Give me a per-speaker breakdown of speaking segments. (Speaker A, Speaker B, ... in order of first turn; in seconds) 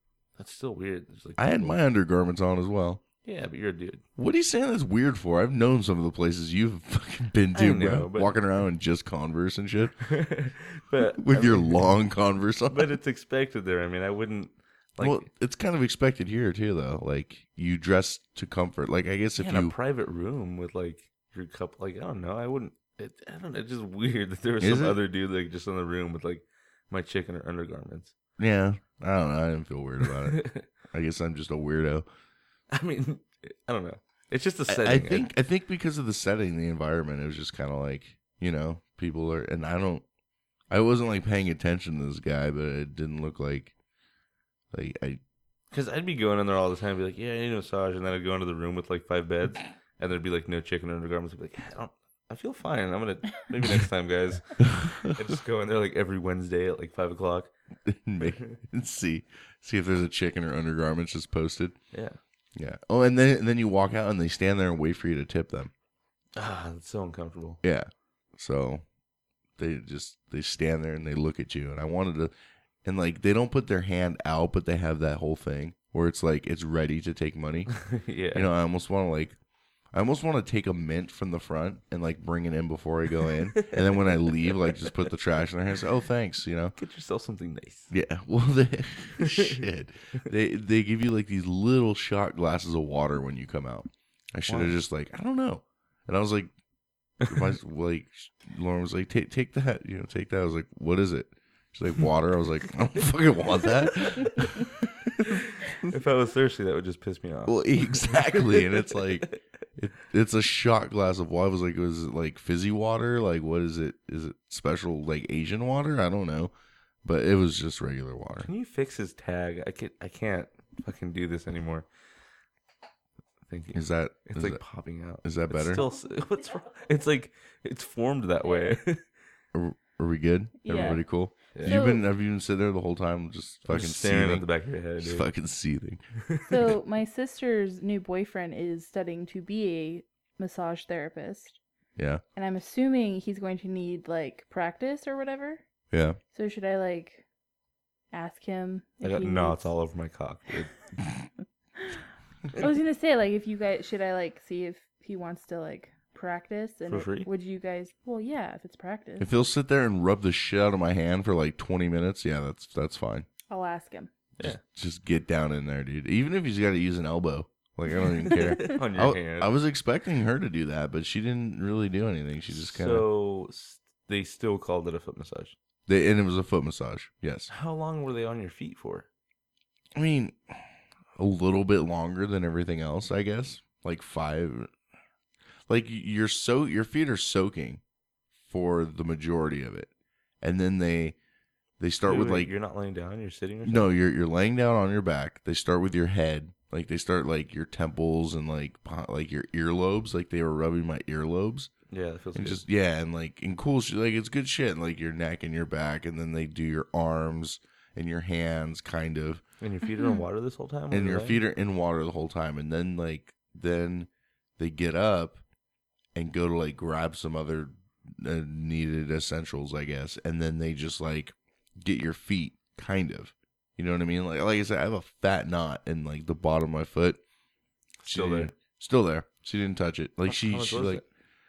Speaker A: 0.4-1.8, 3.2-4.0, 7.5-8.3, 10.0-11.8, 12.7-15.3, 19.4-28.1, 30.1-30.7, 32.7-35.3, 45.7-57.5, 58.2-58.6, 61.9-62.2, 66.3-67.6, 77.7-78.5, 83.5-85.1, 86.8-87.9, 89.2-89.6, 94.5-94.8, 105.2-109.3, 118.4-121.9, 123.5-129.0, 130.7-130.9, 131.5-131.8, 133.6-135.3, 149.0-150.8, 156.9-157.3, 168.6-169.5, 172.5-175.5, 177.5-179.1, 192.1-193.9, 201.9-202.6, 209.6-211.4, 228.0-228.5, 230.3-231.0
Speaker B: 1.4-3.0, 4.2-10.0, 11.1-12.9, 15.0-19.7, 24.6-25.0, 28.4-32.0, 34.7-40.0, 40.7-43.7, 44.7-45.2, 54.7-55.1, 57.9-61.8, 62.5-65.7, 67.6-68.8, 69.6-72.3, 72.8-77.8, 78.3-79.3, 79.9-86.7, 87.9-96.5, 97.2-105.9, 107.5-116.5, 117.0-118.5, 123.7-124.6, 125.2-125.8, 129.5-134.5, 135.0-136.0, 141.9-142.2, 145.9-146.2, 159.2-163.3, 164.4-173.1, 175.9-177.5, 179.9-180.6, 181.2-184.7, 185.7-187.8, 188.4-189.9, 190.4-191.2, 191.8-192.5, 193.6-201.7, 202.3-209.4, 210.9-215.4, 216.1-227.2, 228.1-231.0
Speaker C: 130.6-131.0, 131.6-132.0, 136.4-141.6, 142.3-145.6, 146.3-147.2, 148.1-149.7, 152.6-159.3, 163.5-164.1